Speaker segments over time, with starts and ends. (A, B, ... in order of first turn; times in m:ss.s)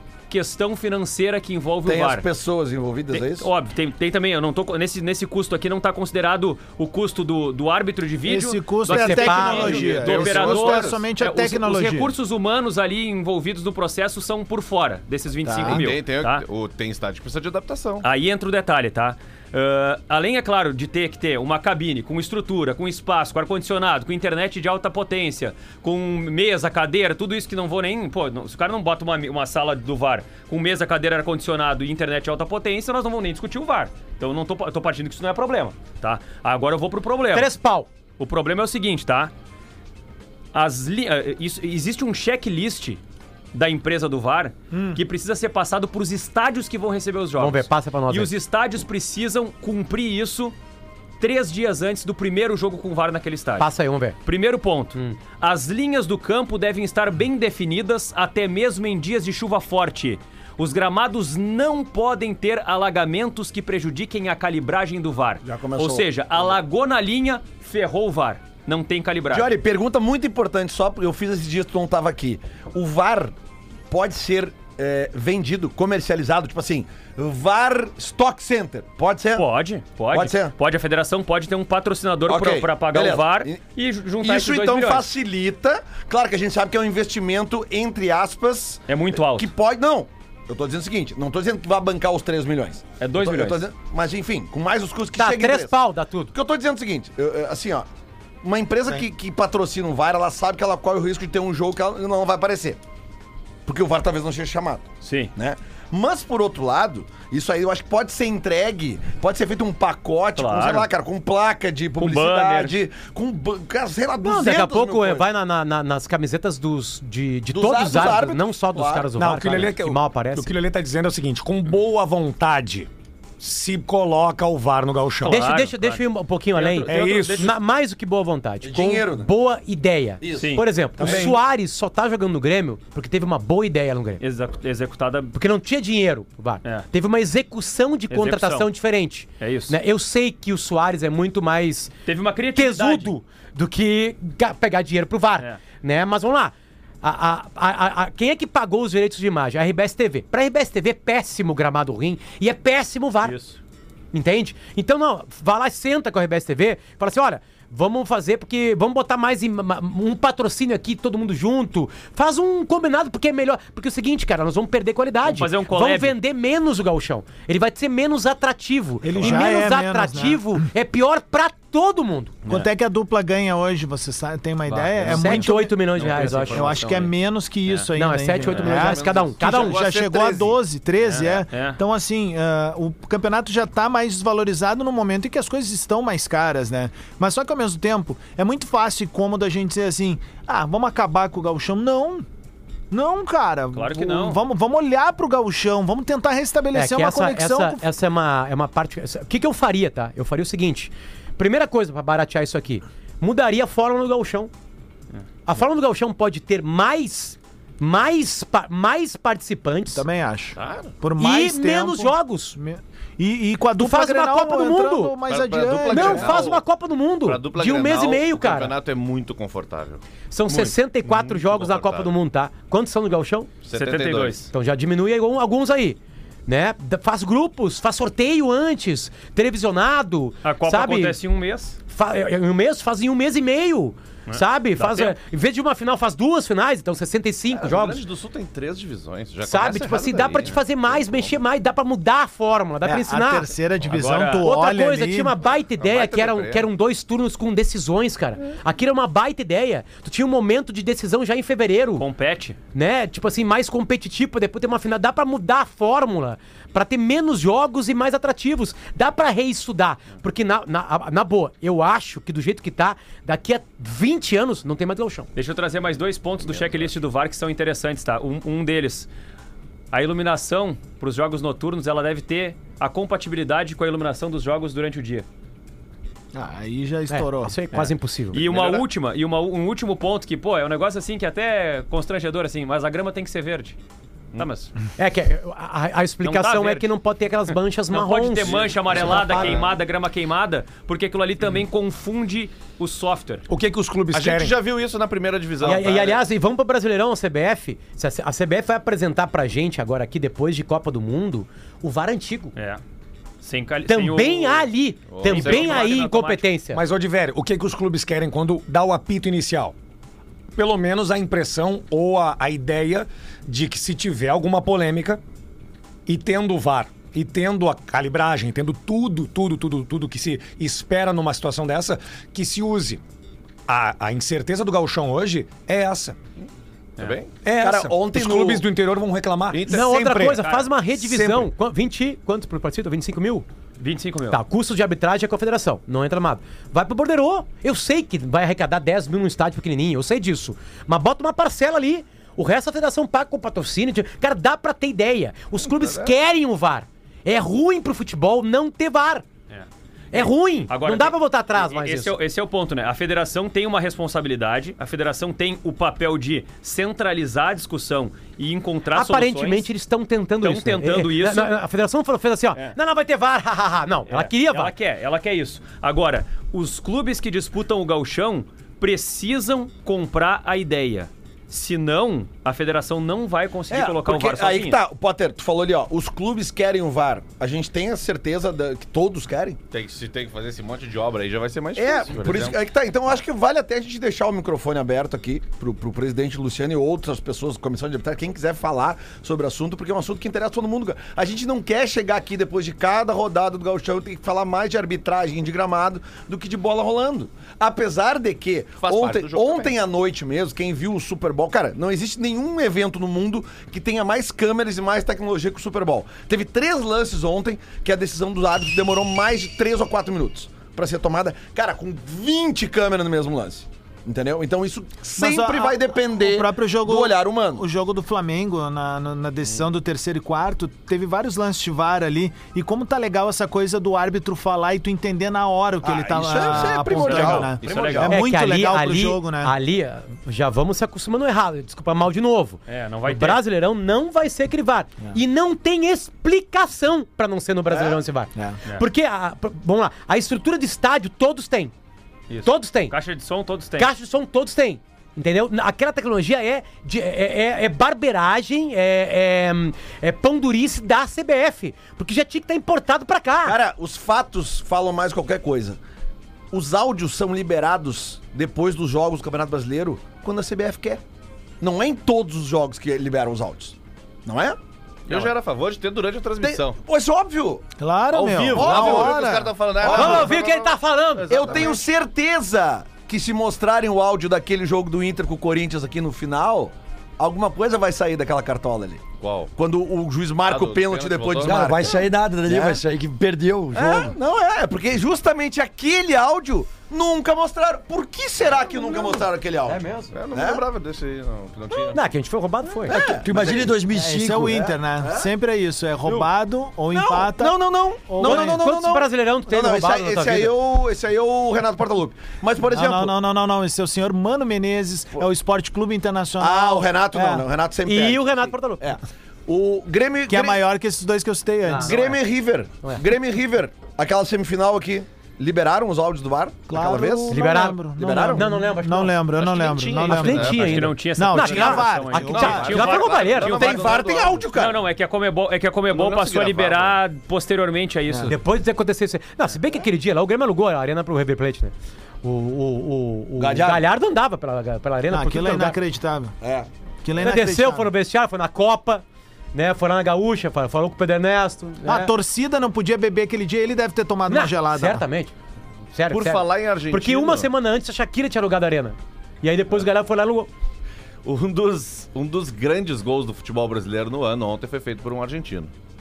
0:00.3-0:02.3 A
0:01.8-0:03.5 B
0:03.1-0:16.4 A
0:08.2-0:12.1 C
0:08.9-0:09.7 D
0:09.4-0:11.0 E
0:15.4-0:15.9 C
0:15.6-0:18.0 E
0:18.0-0:37.5 A
0:37.3-0:37.9 D
0:38.2-0:39.3 A
0:40.5-0:43.0 A
0:43.5-0:50.5 A
0:44.7-0:45.0 C
0:47.4-0:48.3 D
0:51.2-0:53.7 A
0:53.6-0:54.2 D
0:54.2-1:09.5 A
1:05.4-1:06.6 B
1:09.3-1:13.3 B
1:13.9-1:19.4 B
1:19.3-1:25.1 A
1:20.1-1:20.5 B
1:22.3-1:23.6 B
1:24.2-1:35.7 B
1:28.9-1:29.5 A
1:33.0-1:33.6 A
1:35.2-1:36.3 D
1:36.3-1:37.9 B
1:38.4-1:42.8 B
1:43.6-1:55.3 B
1:45.0-1:45.3 A
1:50.4-1:50.9 A
1:52.0-1:52.7 A
1:54.2-2:00.5 D
1:57.5-1:59.1 B
1:59.2-2:05.4 F
2:05.2-2:06.0 A
2:05.2-2:14.2 D
2:06.5-2:07.5 E
2:06.8-2:07.5 F
2:08.6-2:09.3 B
2:10.2-2:11.4 B
2:10.3-2:10.6 A
2:14.2-2:15.3 A
2:15.3-2:21.9 D
2:18.1-2:18.7 A
2:19.4-2:19.8 A
2:22.0-2:23.1 A
2:22.5-2:33.3 D
2:33.2-2:33.6 A
2:34.1-2:52.4 D
2:45.2-2:46.1 A
2:49.0-2:50.7 C
2:52.5-2:55.8 C
2:54.7-2:57.1 E
2:55.0-2:56.8 D
2:56.5-3:12.2 C
2:57.9-2:59.8 D
2:58.4-3:00.5 E
3:01.0-3:01.8 A
3:12.9-3:17.8 C
3:13.7-3:14.4 A
3:16.7-3:24.5 D
3:25.4-3:30.0 D
3:29.9-3:36.5 C
3:30.6-3:30.9 E
3:31.2-3:32.6 D
3:33.8-3:35.2 D
3:35.3-3:36.6 E
3:35.9-3:38.7 D
3:37.2-3:42.1 E
3:40.3-3:43.5 D
3:43.6-3:44.4 E
3:43.7-3:44.5 A
3:44.5-3:51.2 D
3:50.4-3:51.8 A
3:51.9-3:58.0 D
3:54.3-3:55.1 A
3:57.5-4:01.4 E
3:59.4-4:03.5 D
4:02.8-4:05.3 C
4:03.9-4:04.4 A
4:04.4-4:12.0 D
4:05.8-4:06.7 E
4:12.0-4:12.6 A
4:12.7-4:25.3 D
4:25.4-4:29.1 A
4:29.9-4:35.2 A
4:36.3-4:37.5 C
4:37.1-4:38.4 D
4:37.7-4:43.8 A
4:38.5-4:38.8 E
4:44.4-4:44.7 A
4:45.0-4:49.5 D
4:46.2-4:46.9 A
4:47.9-4:53.4 A
4:48.4-4:49.7 E
4:53.5-4:54.6 F
4:54.1-4:56.2 E
4:55.6-5:02.5 D
5:02.6-5:02.8 A
5:03.4-5:04.7 A
5:03.9-5:06.8 D
5:05.1-5:05.9 E
5:05.2-5:06.4 A
5:06.7-5:09.7 F
5:10.5-5:15.2 F
5:16.0-5:23.0 F
5:23.7-5:26.2 F
5:27.0-5:27.3 E
5:27.4-5:30.4 F
5:27.6-5:28.7 B
5:29.5-5:29.9 E
5:29.7-5:33.4 D
5:30.2-5:30.7 A
5:31.0-5:31.5 F
5:33.8-5:34.4 A
5:34.3-5:49.2 D
5:45.6-5:46.1 E
5:49.5-5:59.7 A
5:50.1-5:52.1 D
5:58.9-6:04.7 D
6:00.4-6:01.5 A
6:04.1-6:14.8 A
6:13.7-6:19.6 B
6:19.7-6:22.6 E
6:21.8-6:57.6 B
6:38.8-6:39.8 E
6:55.2-7:09.5 C
7:05.8-7:08.2 B
7:06.9-7:08.1 A
7:07.6-7:08.0 E
7:08.1-7:21.7 D
7:12.7-7:13.4 A
7:22.3-7:23.9 A
7:22.4-7:22.9 D
7:23.8-7:33.6 D
7:33.4-7:35.8 B
7:36.5-7:41.0 B
7:41.6-7:45.3 B
7:45.1-7:46.8 E
7:46.4-7:47.6 B
7:47.8-7:49.8 C
7:48.2-7:51.8 E
7:48.5-7:50.4 B
7:49.9-7:51.6 D
7:51.3-8:02.8 B
7:59.2-7:59.5 E
8:00.4-8:01.7 E
8:01.4-8:04.2 G
8:03.7-8:10.6 B
8:10.1-8:12.0 E
8:11.9-8:13.0 D
8:12.8-8:13.8 B
8:13.0-8:14.6 G
8:13.9-8:18.7 C
8:14.4-8:15.3 B
8:16.9-8:23.1 B
8:18.2-8:20.5 D
8:22.7-8:27.5 C
8:26.4-8:30.6 B
8:27.8-8:28.9 D
8:30.3-8:32.1 C
8:31.7-8:32.0 D
8:31.8-8:38.5 B
8:36.7-8:42.8 C
8:37.3-8:39.2 D
8:39.4-8:40.9 E
8:40.0-8:43.8 D
8:40.5-8:43.8 A
8:41.6-8:44.5 E
8:43.4-8:44.8 B
8:44.5-8:48.4 A
8:45.9-8:47.0 E
8:48.1-8:48.3 C
8:48.3-8:55.8 D
8:53.4-8:53.8 B
8:55.1-8:56.3 C
8:56.4-8:56.7 B
8:57.0-8:57.9 C
8:57.2-9:02.1 D
9:01.8-9:05.0 C
9:04.3-9:05.3 D
9:05.9-9:10.5 D
9:06.1-9:07.5 E
9:11.2-9:15.7 E